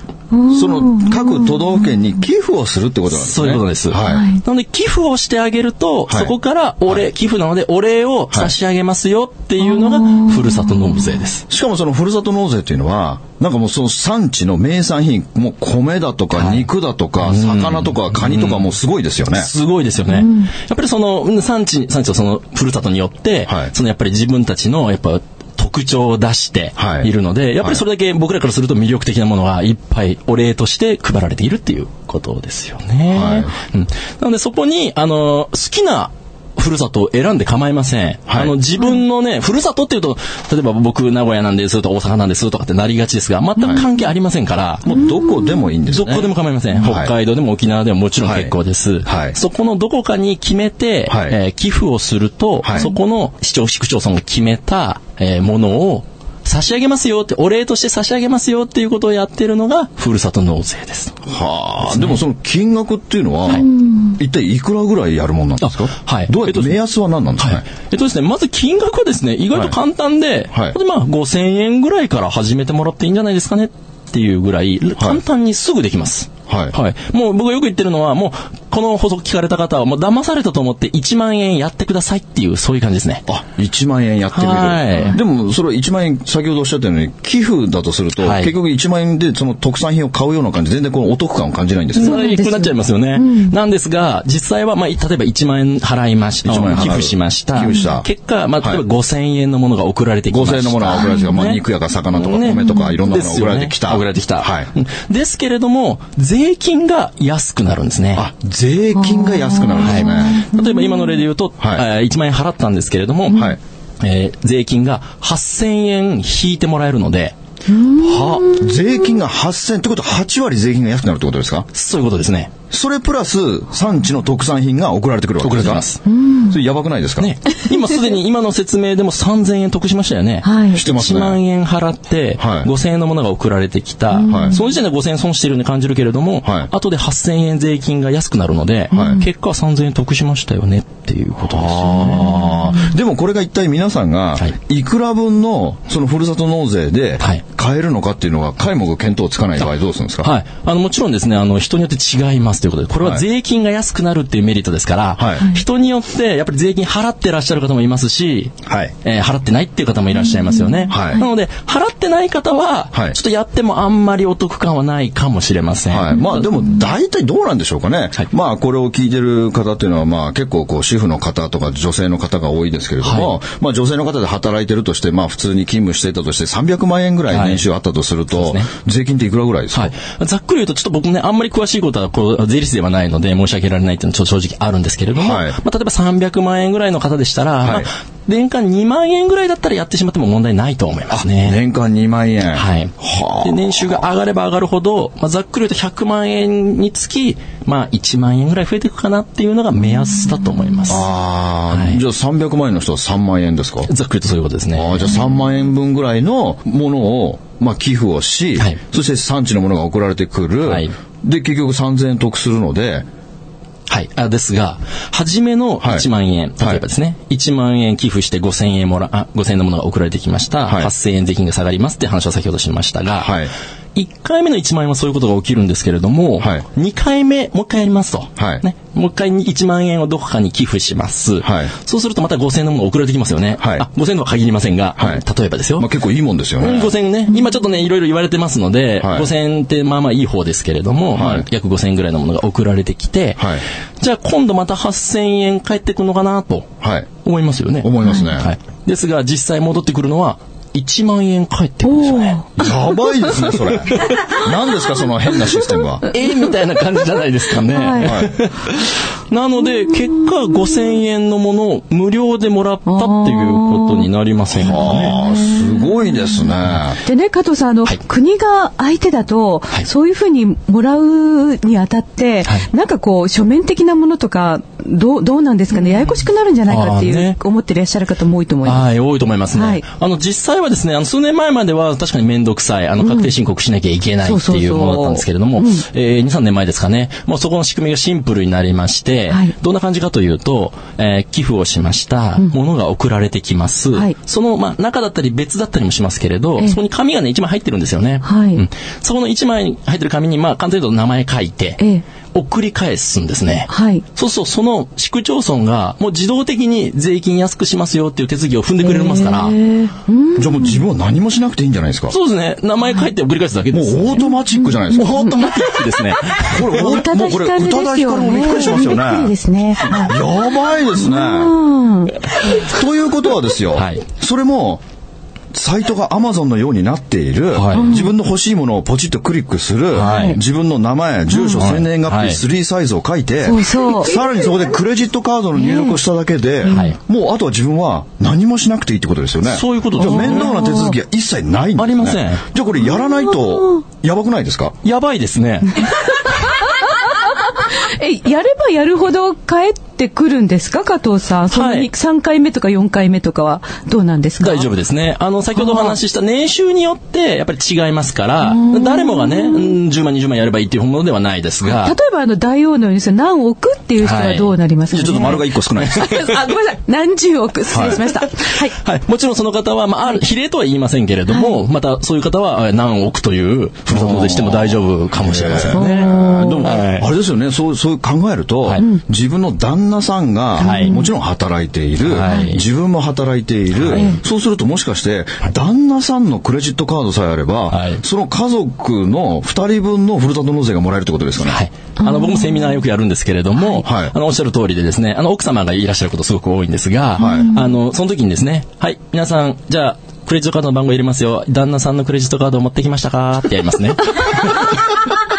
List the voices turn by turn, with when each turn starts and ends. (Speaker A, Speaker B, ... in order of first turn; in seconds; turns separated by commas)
Speaker A: 0.3-1.7, Speaker B: 0.5-4.3, Speaker C: 3.1-11.4, Speaker A: 4.1-4.4, Speaker B: 6.1-6.3, Speaker A: 9.8-10.7, Speaker B: 11.5-19.5, Speaker C: 16.3-16.7, Speaker C: 17.2-18.7, Speaker C: 19.3-44.9, Speaker A: 20.2-20.5, Speaker B: 26.8-27.8, Speaker B: 33.1-33.5, Speaker B: 38.3-38.5, Speaker B: 44.9-47.1, Speaker A: 44.9-45.6, Speaker C: 45.9-61.2, Speaker B: 48.2-48.5, Speaker B: 49.1-49.4, Speaker B: 51.1-51.4, Speaker B: 52.6-52.9, Speaker B: 61.3-67.6, Speaker C: 61.8-62.2, Speaker A: 63.5-64.2, Speaker C: 65.6-66.8, Speaker C: 67.4-83.2, Speaker B: 76.5-76.7, Speaker B: 83.3-92.2, Speaker C: 84.3-85.2, Speaker C: 88.2-88.5, Speaker C: 92.0-108.2, Speaker A: 92.0-93.5, Speaker B: 96.4-98.1, Speaker B: 100.3-104.7, Speaker B: 108.2-110.5, Speaker A: 109.0-111.2, Speaker C: 109.8-117.3, Speaker B: 113.3-113.6, Speaker A: 117.7-118.9, Speaker B: 118.0-121.7, Speaker C: 121.7-122.5, Speaker B: 122.7-125.9, Speaker C: 125.4-126.0, Speaker A: 126.0-126.6, Speaker B: 126.5-127.3, Speaker C: 127.2-142.6, Speaker A: 130.4-130.8, Speaker B: 130.7-131.4, Speaker B: 132.4-132.7, Speaker A: 134.1-134.6, Speaker B: 134.3-134.6, Speaker B: 136.4-136.7, Speaker A: 138.9-139.3, Speaker B: 138.9-139.2, Speaker B: 141.4-150.3, Speaker A: 142.3-142.8, Speaker C: 150.2-166.3, Speaker B: 155.2-155.4, Speaker B: 158.7-158.9, Speaker A: 160.5-161.2, Speaker B: 160.9-161.2, Speaker B: 165.9-179.9, Speaker C: 173.0-173.4, Speaker C: 177.3-177.6, Speaker C: 178.3-178.7, Speaker C: 179.7-191.6, Speaker B: 185.2-185.6, Speaker B: 191.1-194.0, Speaker C: 192.5-201.1, Speaker B: 200.9-203.9, Speaker C: 201.7-202.0, Speaker C: 203.9-205.2, Speaker B: 204.8-213.1, Speaker C: 210.6-210.9, Speaker C: 213.9-223.3, Speaker B: 220.7-220.9, Speaker B: 223.2-223.5, Speaker C: 223.9-235.9, Speaker B: 226.4-226.6, Speaker B: 228.4-228.6, Speaker B: 231.4-231.7, Speaker B: 233.6-233.9, Speaker B: 235.8-236.9, Speaker C: 236.6-243.5, Speaker B: 239.0-239.3, Speaker B: 241.1-241.5, Speaker B: 243.4-243.6, Speaker C: 244.0-252.5, Speaker B: 246.8-247.1, Speaker B: 247.8-248.5, Speaker A: 251.8-253.1, Speaker B: 252.6-256.1, Speaker C: 253.5-254.4, Speaker C: 256.1-265.2, Speaker A: 257.7-258.2, Speaker B: 258.0-258.3, Speaker A: 262.9-264.1, Speaker B: 264.6-267.0, Speaker A: 264.7-266.4, Speaker A: 267.1-278.9, Speaker C: 276.7-277.4, Speaker C: 278.6-301.8, Speaker A: 279.5-279.8, Speaker A: 283.0-283.3, Speaker A: 284.2-285.8, Speaker A: 298.2-298.6, Speaker C: 302.3-309.6, Speaker A: 303.7-304.0, Speaker A: 308.8-310.8, Speaker B: 310.4-312.1, Speaker C: 312.1-314.3, Speaker B: 313.7-315.3, Speaker A: 314.6-315.7, Speaker C: 314.9-317.0, Speaker B: 316.4-319.3, Speaker A: 316.7-320.2, Speaker B: 319.9-321.6, Speaker A: 320.9-322.3, Speaker B: 322.4-324.8, Speaker C: 323.8-324.0, Speaker B: 325.5-344.8, Speaker C: 327.6-327.9, Speaker A: 327.8-328.1, Speaker A: 329.9-330.4, Speaker C: 330.0-330.4, Speaker A: 331.3-331.6, Speaker C: 331.5-332.4, Speaker A: 333.4-334.3, Speaker A: 335.6-336.0, Speaker A: 336.6-336.9, Speaker C: 336.7-337.0, Speaker C: 339.5-340.6, Speaker A: 340.0-341.0, Speaker C: 341.8-342.4, Speaker A: 342.9-343.8, Speaker C: 344.8-345.9, Speaker A: 346.2-354.7, Speaker C: 351.5-351.9, Speaker C: 354.4-362.0, Speaker A: 355.6-355.9, Speaker A: 358.4-359.8, Speaker A: 361.6-368.8, Speaker C: 364.0-364.5, Speaker B: 364.9-366.2, Speaker C: 365.1-366.3, Speaker B: 367.7-368.0, Speaker C: 367.8-368.2, Speaker C: 368.8-377.1, Speaker A: 371.3-371.6, Speaker B: 373.9-391.6, Speaker A: 375.7-376.7, Speaker C: 380.6-381.0, Speaker A: 380.6-381.1, Speaker C: 382.0-382.6, Speaker A: 382.3-382.6, Speaker C: 383.7-384.1, Speaker A: 383.9-384.2, Speaker C: 387.7-388.0, Speaker C: 391.4-405.0, Speaker A: 392.0-392.8, Speaker B: 393.8-394.1, Speaker B: 397.2-397.6, Speaker A: 397.2-397.7